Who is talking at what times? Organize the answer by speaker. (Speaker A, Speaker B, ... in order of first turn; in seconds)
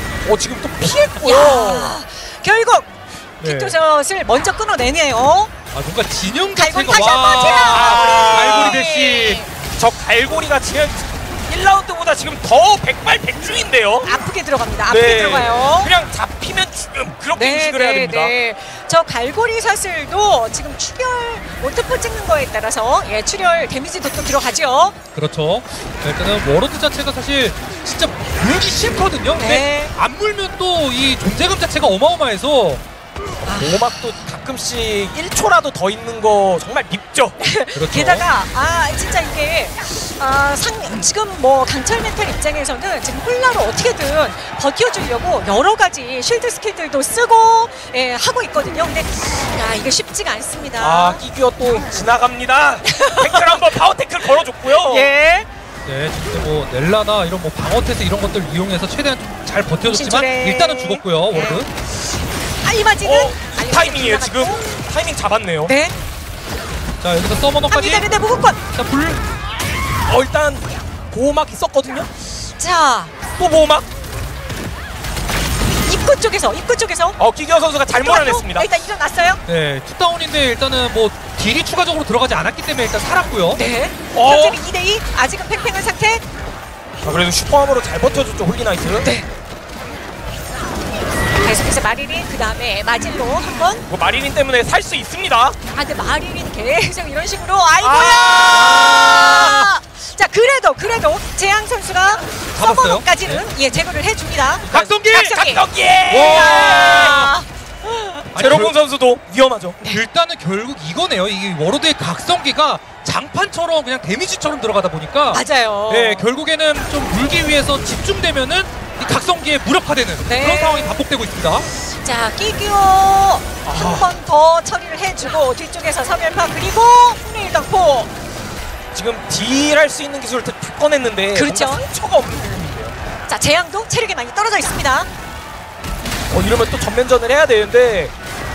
Speaker A: 0.2-1.9, 7.2-8.8, 9.7-14.1, 14.9-18.3, 33.5-37.4, 50.8-55.1, 63.0-65.7, 70.1-72.1, 73.4-73.9, 77.2-78.7, 84.1-84.6, 87.0-89.1, 93.9-95.6, 97.8-99.6, 105.2-107.1, 108.3-109.8, 123.7-124.1, 128.9-133.0, 136.3-138.1
Speaker B: 1.2-5.5, 6.6-9.5, 14.0-15.9, 17.4-24.9, 29.4-29.9, 33.5-33.8, 37.4-51.2, 52.9-53.6, 54.6-55.5, 59.9-61.6, 62.6-64.6, 65.7-66.0, 67.7-68.6, 72.6-73.1, 75.8-77.2, 78.0-79.4, 83.5-86.2, 91.4-93.9, 95.7-108.3, 115.3-116.2, 120.3-121.0, 121.8-128.1, 131.3-131.8, 133.3-135.1
Speaker C: 3.4-3.8, 5.7-9.4, 25.1-32.8, 37.8-38.2, 55.9-61.7, 67.0-68.1, 68.7-69.2, 79.5-83.6, 102.5-103.5, 104.7-105.4, 106.1-107.2, 108.3-108.7, 109.9-121.7